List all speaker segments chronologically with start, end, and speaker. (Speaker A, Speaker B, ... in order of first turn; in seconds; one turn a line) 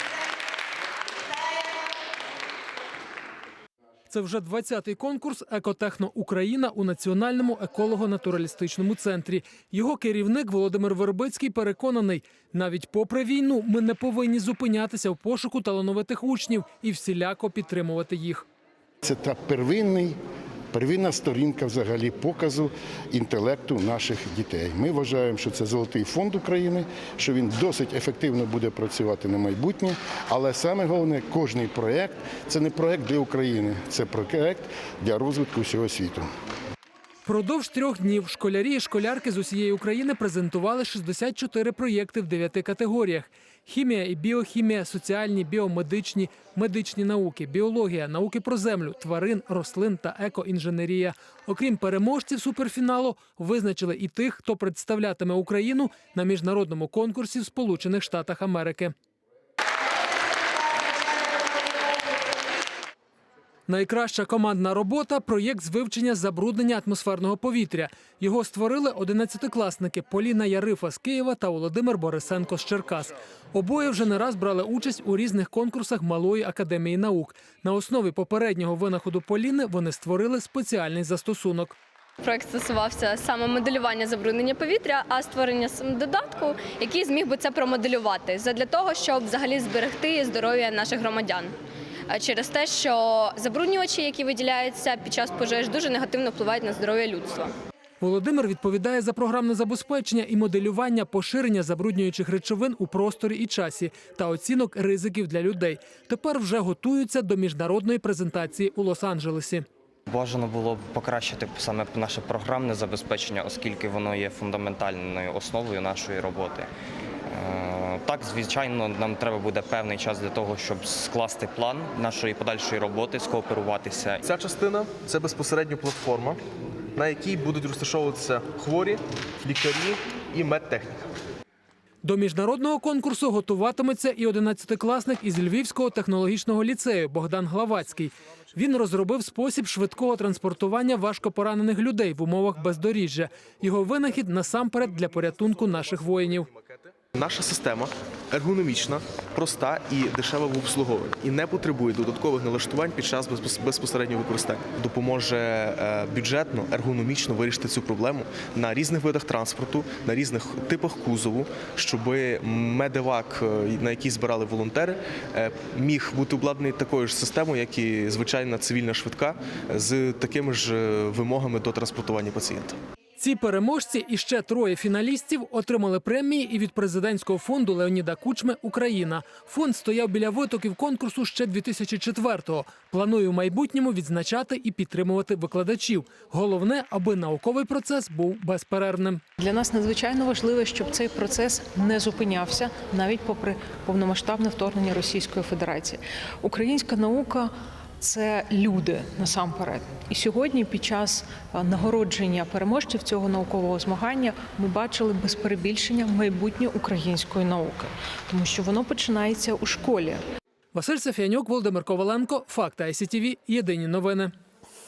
Speaker A: 4.1-18.4
Speaker B: 19.0-20.2
Speaker B: 20.7-36.3
Speaker A: 37.2-58.9
Speaker A: 63.7-81.8
Speaker C: 82.2-91.5
Speaker C: 92.1-97.5
Speaker A: 98.0-109.7
Speaker D: 110.1-116.7
Speaker D: 117.3-124.2
Speaker E: 124.3-126.4
Speaker E: 127.0-131.1
Speaker A: 132.0-146.5
Speaker E: 147.1-172.8
Speaker A: 173.2-189.2
Speaker F: 189.4-210.2
Speaker A: 210.7-214.3